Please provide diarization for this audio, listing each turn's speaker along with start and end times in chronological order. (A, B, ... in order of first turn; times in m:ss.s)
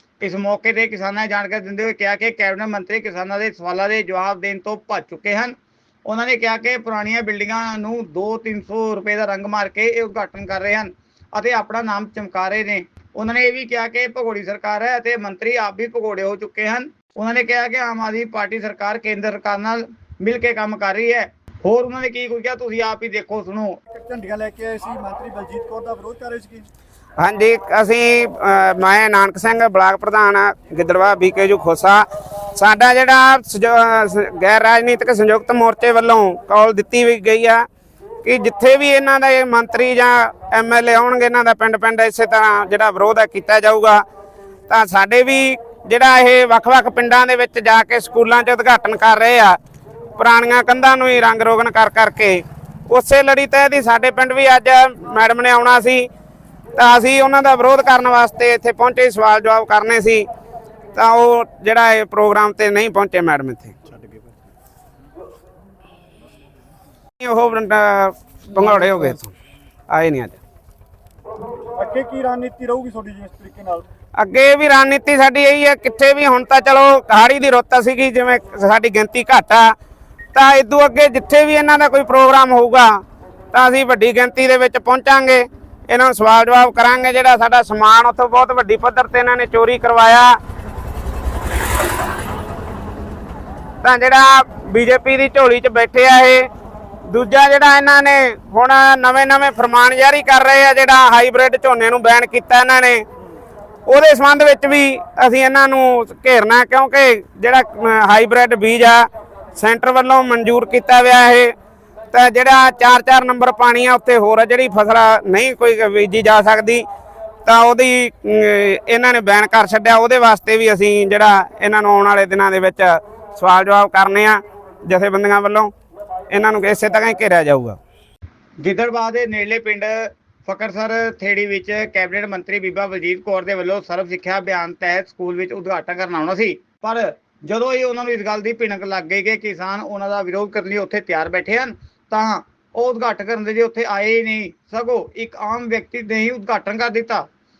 0:00.2-0:05.5 A
0:06.0-0:23.8 A
0:23.9-0:26.6 B
0:27.2-0:32.0 C
0:32.6-0:37.6 C
0:38.2-0:44.0 C
0:44.7-0:49.6 C
0:50.2-0:56.1 C
0:56.8-1:00.2 C
1:00.9-1:03.7 C
1:03.9-1:04.2 B
1:07.2-1:09.3 C
1:09.9-1:10.4 C
1:11.8-1:13.8 B
1:14.2-1:19.7 C
1:20.3-1:23.0 C
1:23.5-1:30.3 C
1:33.8-1:36.5 C
1:37.0-1:43.0 C
1:43.8-1:51.5 C
1:52.1-1:56.8 C
1:57.4-2:05.7 C
2:06.3-2:07.8 C
2:08.6-2:27.3 A